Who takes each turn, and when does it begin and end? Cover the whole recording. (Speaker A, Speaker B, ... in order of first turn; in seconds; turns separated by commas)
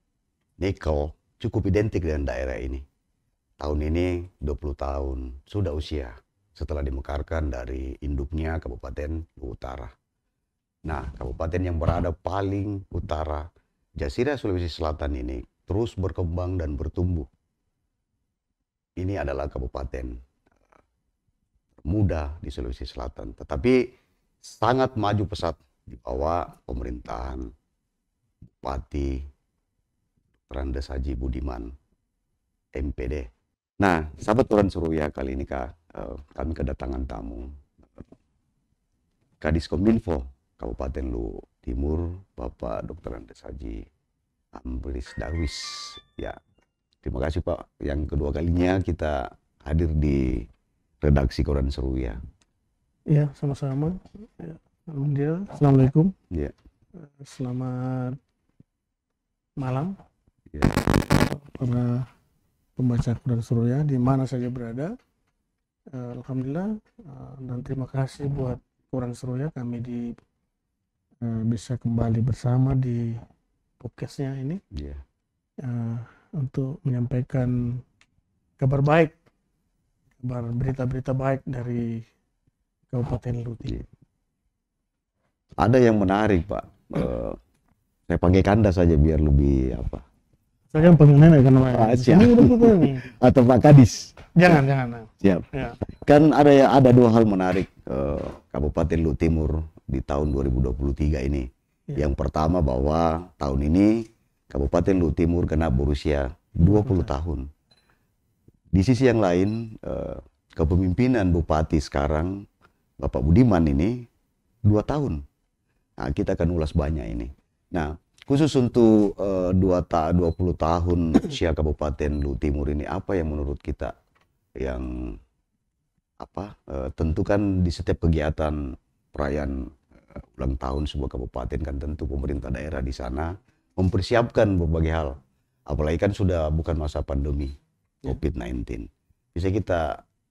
Speaker A: 0.6-2.8, Speaker A: 3.6-9.9, Speaker A: 10.8-13.4, Speaker A: 14.0-17.3, Speaker A: 19.0-20.1, Speaker A: 21.8-23.8, Speaker A: 24.4-27.4, Speaker A: 28.6-29.2, Speaker A: 30.5-31.7, Speaker A: 32.7-33.3, Speaker A: 33.8-37.4, Speaker A: 39.4-43.8, Speaker A: 44.5-46.4, Speaker A: 47.0-50.4, Speaker A: 51.0-52.2, Speaker B: 53.1-56.1, Speaker B: 57.0-58.2, Speaker B: 59.6-59.9, Speaker B: 61.0-62.1, Speaker B: 62.8-64.9, Speaker B: 65.9-70.2, Speaker B: 71.2-73.2, Speaker B: 73.8-74.6, Speaker A: 74.7-75.0, Speaker B: 75.6-77.8, Speaker B: 78.6-79.1, Speaker B: 80.2-82.1, Speaker B: 82.9-83.8, Speaker A: 85.6-87.4, Speaker A: 88.1-90.0, Speaker B: 90.7-93.0, Speaker A: 91.7-94.2, Speaker B: 94.3-95.8, Speaker A: 95.2-107.5, Speaker B: 106.7-107.1, Speaker A: 108.7-112.4, Speaker A: 113.0-114.1, Speaker A: 114.7-115.2, Speaker A: 116.0-123.9, Speaker A: 124.6-125.2, Speaker A: 126.2-135.2, Speaker A: 135.7-140.0